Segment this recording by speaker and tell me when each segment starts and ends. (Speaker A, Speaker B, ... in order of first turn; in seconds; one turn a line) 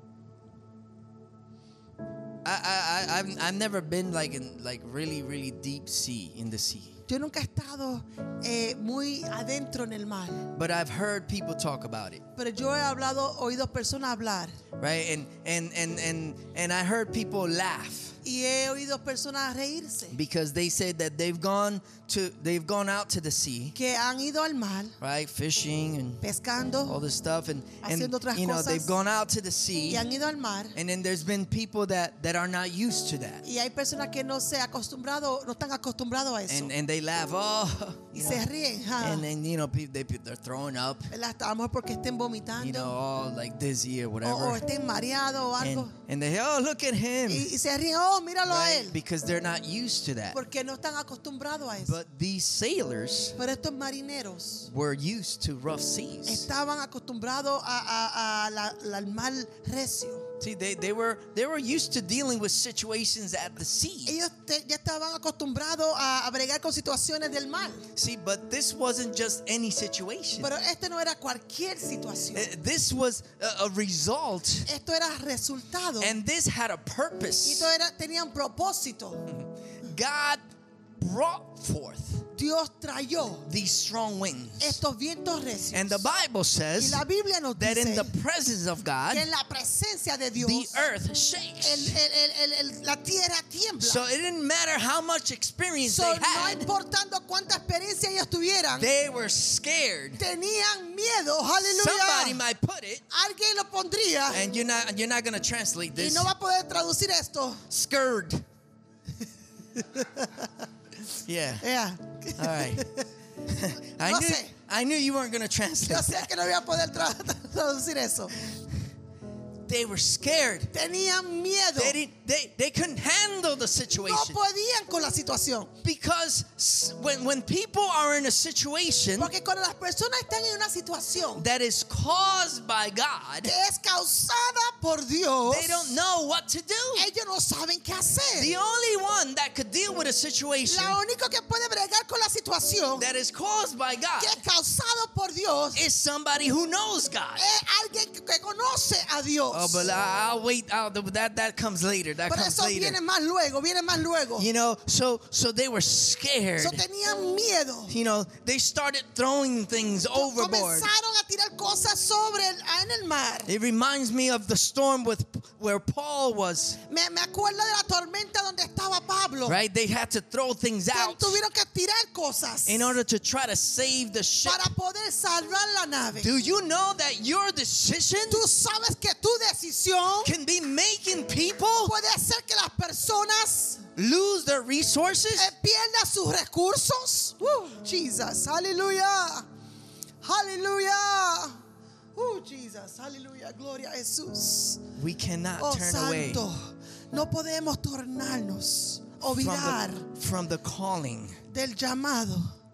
Speaker A: 2.4-7.0
Speaker B: 7.1-10.4
Speaker A: 10.5-12.2
Speaker B: 12.3-14.6
Speaker A: 14.8-18.1
Speaker B: 18.2-20.2
Speaker A: 20.1-23.7
Speaker B: 23.7-24.9
Speaker A: 25.0-26.2
Speaker B: 26.2-27.0
Speaker A: 26.9-30.0
Speaker B: 27.8-28.9
Speaker B: 29.9-30.8
Speaker A: 30.7-33.4
Speaker B: 33.4-36.7
Speaker A: 36.5-38.5
Speaker B: 38.1-39.3
Speaker A: 39.0-41.1
Speaker B: 41.1-43.0
Speaker A: 42.6-44.6
Speaker B: 44.2-45.9
Speaker A: 45.6-47.5
Speaker B: 47.3-49.0
Speaker A: 48.4-50.4
Speaker B: 50.3-52.0
Speaker A: 51.8-53.4
Speaker B: 53.4-54.7
Speaker A: 54.6-56.5
Speaker B: 56.2-60.2
Speaker A: 60.4-64.2
Speaker B: 64.0-67.8
Speaker A: 67.9-70.5
Speaker B: 70.4-72.5
Speaker A: 72.3-74.7
Speaker B: 74.7-76.2
Speaker A: 76.0-77.7
Speaker B: 77.4-79.2
Speaker A: 79.3-80.4
Speaker A: 81.0-82.3
Speaker B: 82.3-83.5
Speaker A: 83.4-84.8
Speaker B: 84.6-86.1
Speaker A: 85.7-87.0
Speaker B: 86.8-88.1
Speaker A: 87.5-89.2
Speaker B: 89.1-90.9
Speaker A: 90.3-92.0
Speaker B: 91.6-94.1
Speaker A: 93.8-96.7
Speaker B: 95.8-98.9
Speaker A: 98.7-100.2
Speaker B: 100.2-102.4
Speaker A: 101.6-103.0
Speaker B: 103.1-104.4
Speaker A: 104.3-106.3
Speaker B: 105.9-107.6
Speaker A: 107.7-108.4
Speaker B: 109.8-110.4
Speaker A: 111.2-111.6
Speaker B: 111.6-113.0
Speaker A: 112.4-112.8
Speaker A: 113.5-116.3
Speaker B: 114.0-114.5
Speaker B: 115.8-118.4
Speaker A: 119.7-120.7
Speaker B: 120.7-122.0
Speaker A: 121.8-124.4
Speaker B: 123.9-125.7
Speaker A: 125.8-129.3
Speaker B: 129.2-131.4
Speaker A: 131.3-133.5
Speaker B: 133.4-136.0
Speaker A: 135.5-137.1
Speaker B: 136.9-138.6
Speaker A: 138.3-141.0
Speaker B: 140.7-143.1
Speaker A: 142.9-144.3
Speaker B: 144.2-145.8
Speaker A: 145.7-147.4
Speaker B: 147.4-149.9
Speaker A: 149.5-153.0
Speaker B: 152.2-154.5
Speaker A: 154.4-156.8
Speaker B: 156.6-157.9
Speaker A: 157.9-160.9
Speaker B: 160.1-163.5
Speaker A: 163.5-166.8
Speaker B: 166.9-169.6
Speaker A: 169.4-171.4
Speaker B: 170.9-172.9
Speaker A: 172.7-174.6
Speaker B: 174.4-176.3
Speaker A: 176.2-178.4
Speaker B: 178.3-180.3
Speaker A: 180.2-181.9
Speaker B: 181.8-183.8
Speaker A: 183.9-185.5
Speaker B: 185.3-189.4
Speaker B: 190.2-191.6
Speaker B: 192.1-194.8
Speaker A: 194.9-196.4
Speaker B: 195.6-200.1
Speaker A: 199.2-201.4
Speaker B: 201.5-202.5